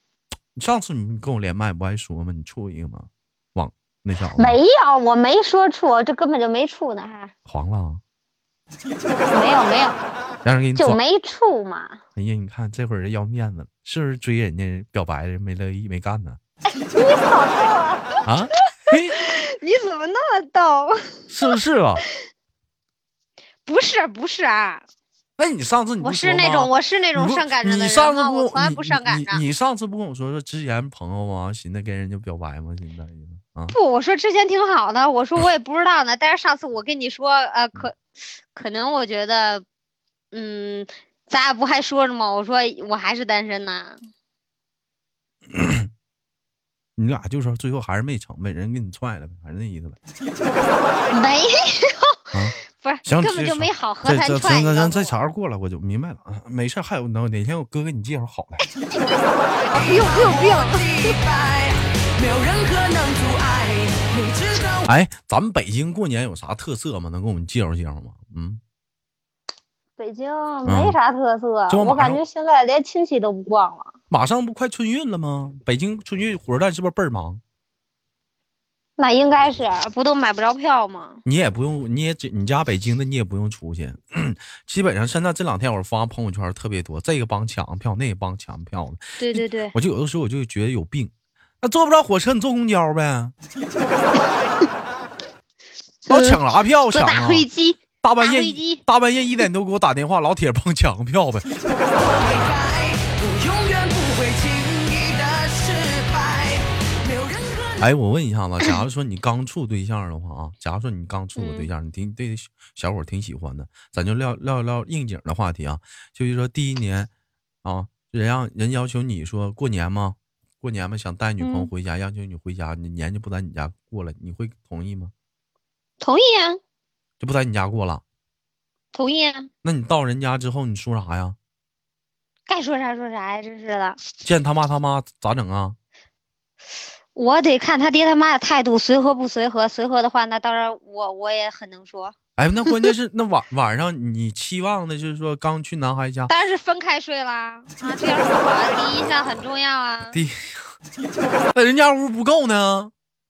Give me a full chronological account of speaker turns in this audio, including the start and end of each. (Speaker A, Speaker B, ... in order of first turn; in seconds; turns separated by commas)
Speaker A: 0.6-4.6, Speaker B: 4.4-7.3, Speaker A: 7.5-8.0, Speaker B: 9.3-10.0, Speaker A: 10.4-11.0, Speaker B: 10.8-12.0, Speaker A: 12.2-16.4, Speaker B: 16.7-18.2, Speaker A: 18.2-19.2, Speaker B: 18.9-21.3, Speaker A: 21.3-22.0, Speaker B: 23.6-24.8, Speaker A: 25.4-33.7, Speaker B: 26.0-29.4, Speaker B: 33.7-39.6, Speaker B: 40.3-44.0, Speaker A: 45.5-45.9, Speaker A: 47.0-50.0, Speaker B: 51.1-52.2, Speaker A: 52.3-58.7, Speaker B: 52.7-55.1, Speaker B: 59.7-61.1, Speaker C: 59.7-64.9, Speaker A: 64.8-68.6, Speaker B: 70.0-73.9, Speaker A: 70.7-71.0, Speaker A: 71.7-72.2, Speaker A: 74.1-77.4, Speaker B: 79.0-81.2, Speaker A: 81.2-93.3, Speaker B: 89.2-89.7, Speaker B: 96.1-96.4, Speaker A: 96.1-97.5, Speaker B: 96.9-98.8, Speaker A: 98.0-101.5, Speaker C: 102.0-107.9, Speaker A: 107.8-117.1, Speaker B: 111.4-111.7, Speaker A: 117.6-125.1, Speaker B: 121.4-121.7, Speaker B: 126.0-126.6, Speaker A: 127.2-128.0, Speaker B: 128.9-129.5, Speaker A: 129.6-131.4, Speaker B: 132.5-134.0, Speaker A: 134.2-135.8, Speaker B: 137.1-142.1, Speaker A: 142.4-146.3, Speaker B: 146.3-150.2, Speaker A: 150.1-150.4, Speaker A: 151.5-152.9